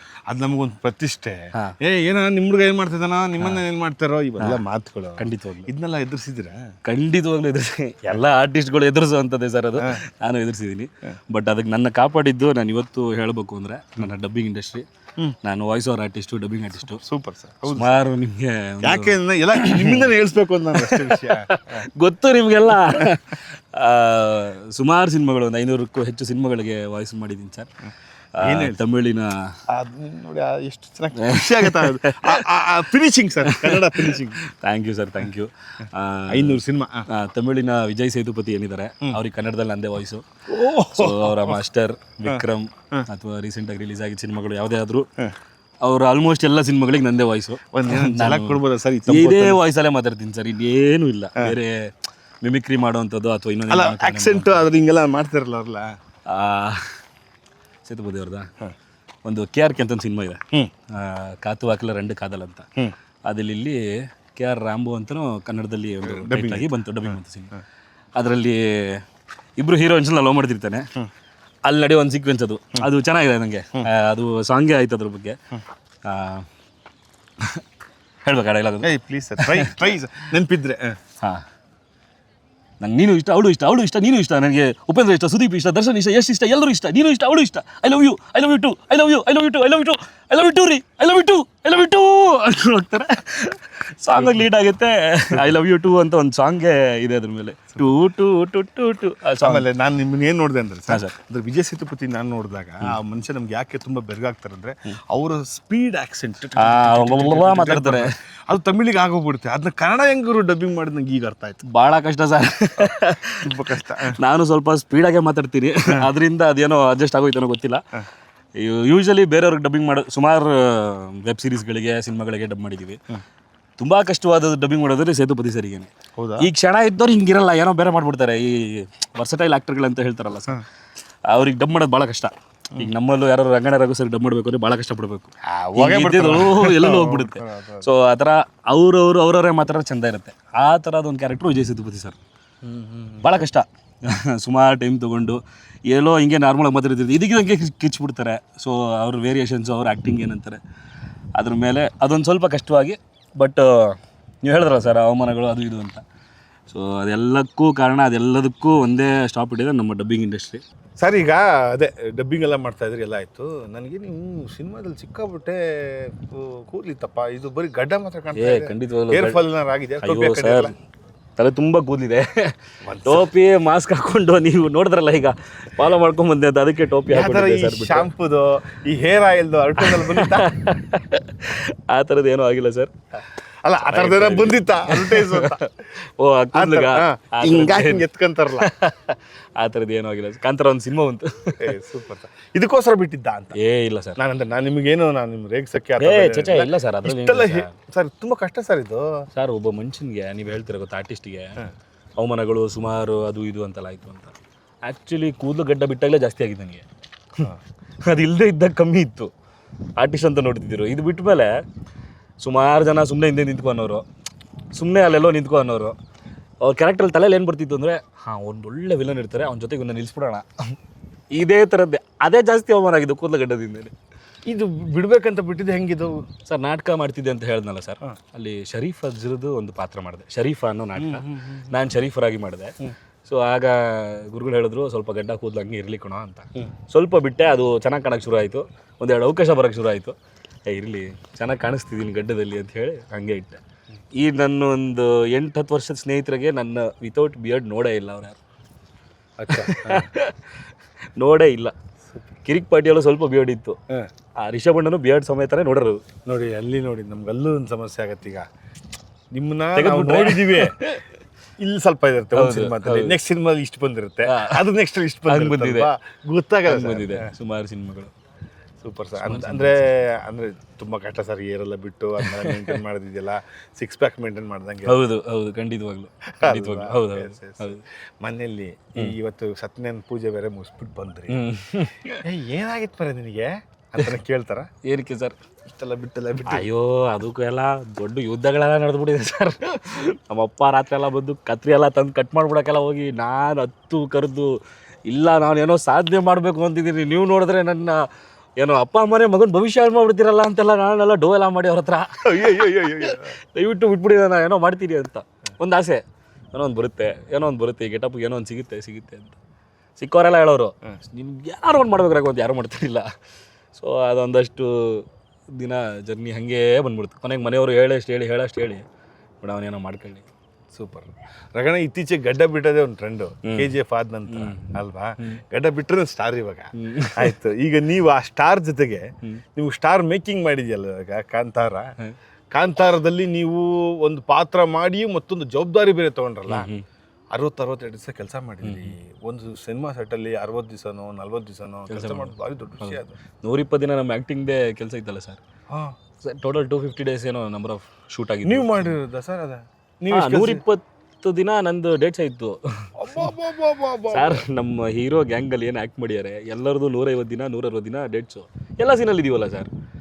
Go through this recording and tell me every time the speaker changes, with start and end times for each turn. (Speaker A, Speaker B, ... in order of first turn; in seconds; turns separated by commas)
Speaker A: 0.3-6.7, Speaker B: 5.2-5.7, Speaker B: 6.8-14.8, Speaker B: 15.4-17.0, Speaker A: 16.8-17.9, Speaker B: 17.7-20.1, Speaker A: 18.8-21.8, Speaker B: 20.8-27.7, Speaker A: 22.7-23.1, Speaker B: 28.4-29.6, Speaker A: 28.4-28.7, Speaker A: 29.7-34.4, Speaker B: 31.2-32.5, Speaker B: 33.5-40.2, Speaker A: 36.3-37.1, Speaker A: 40.5-41.6, Speaker B: 40.9-45.1, Speaker A: 42.2-43.1, Speaker B: 45.8-54.6, Speaker A: 47.7-49.6, Speaker A: 53.7-56.0, Speaker B: 56.3-56.9, Speaker B: 57.8-58.5, Speaker B: 59.2-62.7, Speaker B: 63.2-67.5, Speaker A: 66.0-67.6, Speaker B: 68.2-69.0, Speaker B: 69.6-70.9, Speaker B: 71.6-75.4, Speaker B: 76.0-76.5, Speaker B: 78.2-79.9, Speaker A: 78.8-81.0, Speaker B: 82.8-99.7, Speaker A: 94.2-94.4, Speaker A: 99.4-111.6, Speaker B: 100.9-101.1, Speaker B: 106.6-108.2, Speaker B: 111.6-117.8, Speaker A: 113.4-114.2, Speaker B: 118.6-123.0, Speaker B: 123.8-130.6, Speaker A: 126.2-126.5, Speaker B: 131.3-142.2, Speaker A: 135.4-137.9, Speaker A: 142.6-143.3, Speaker B: 143.2-150.6, Speaker B: 151.3-156.0, Speaker B: 156.7-160.6, Speaker A: 161.0-170.7, Speaker B: 168.3-169.4, Speaker B: 170.0-170.7, Speaker B: 171.4-178.1, Speaker A: 172.8-173.3, Speaker A: 177.1-180.5, Speaker B: 179.8-182.9, Speaker A: 183.6-185.6, Speaker B: 183.8-188.1, Speaker A: 186.5-188.7, Speaker B: 188.6-191.7, Speaker A: 191.6-193.6, Speaker B: 193.5-194.2, Speaker A: 194.2-199.1, Speaker B: 196.0-197.7, Speaker B: 199.3-201.6, Speaker B: 202.2-204.3, Speaker B: 204.8-206.8, Speaker B: 208.1-209.3, Speaker B: 210.0-211.5, Speaker B: 212.4-214.0, Speaker B: 214.7-215.9, Speaker B: 216.6-220.8, Speaker B: 221.3-223.9, Speaker A: 224.4-226.2, Speaker B: 226.4-240.1, Speaker A: 231.0-231.8, Speaker B: 240.7-243.6, Speaker B: 244.2-248.4, Speaker A: 249.4-250.1, Speaker B: 249.5-250.5, Speaker B: 251.2-251.7, Speaker B: 252.4-253.8, Speaker B: 254.4-256.0, Speaker A: 256.2-258.5, Speaker A: 259.3-260.8, Speaker B: 259.7-261.0, Speaker A: 261.6-267.3, Speaker B: 262.3-263.2, Speaker B: 264.3-264.6, Speaker B: 265.3-265.9, Speaker B: 266.7-268.1, Speaker A: 268.8-275.0, Speaker B: 269.1-269.8, Speaker B: 272.2-272.8, Speaker B: 274.8-277.8, Speaker A: 276.4-281.4, Speaker B: 281.3-282.2, Speaker A: 282.2-284.7, Speaker B: 284.8-285.3, Speaker A: 285.7-286.7, Speaker B: 286.4-294.6, Speaker B: 295.1-298.1, Speaker B: 298.6-309.4, Speaker A: 302.2-303.3, Speaker B: 310.0-313.1, Speaker B: 313.7-318.9, Speaker B: 319.4-320.2, Speaker A: 320.7-331.9, Speaker B: 323.4-323.7, Speaker B: 324.3-325.4, Speaker B: 326.8-327.3, Speaker A: 332.5-336.7, Speaker B: 336.5-336.8, Speaker A: 337.3-343.2, Speaker B: 338.6-338.9, Speaker B: 341.9-345.4, Speaker A: 345.7-345.9, Speaker B: 346.2-349.0, Speaker A: 348.4-350.6, Speaker B: 350.1-353.2, Speaker A: 353.0-354.4, Speaker B: 354.1-359.7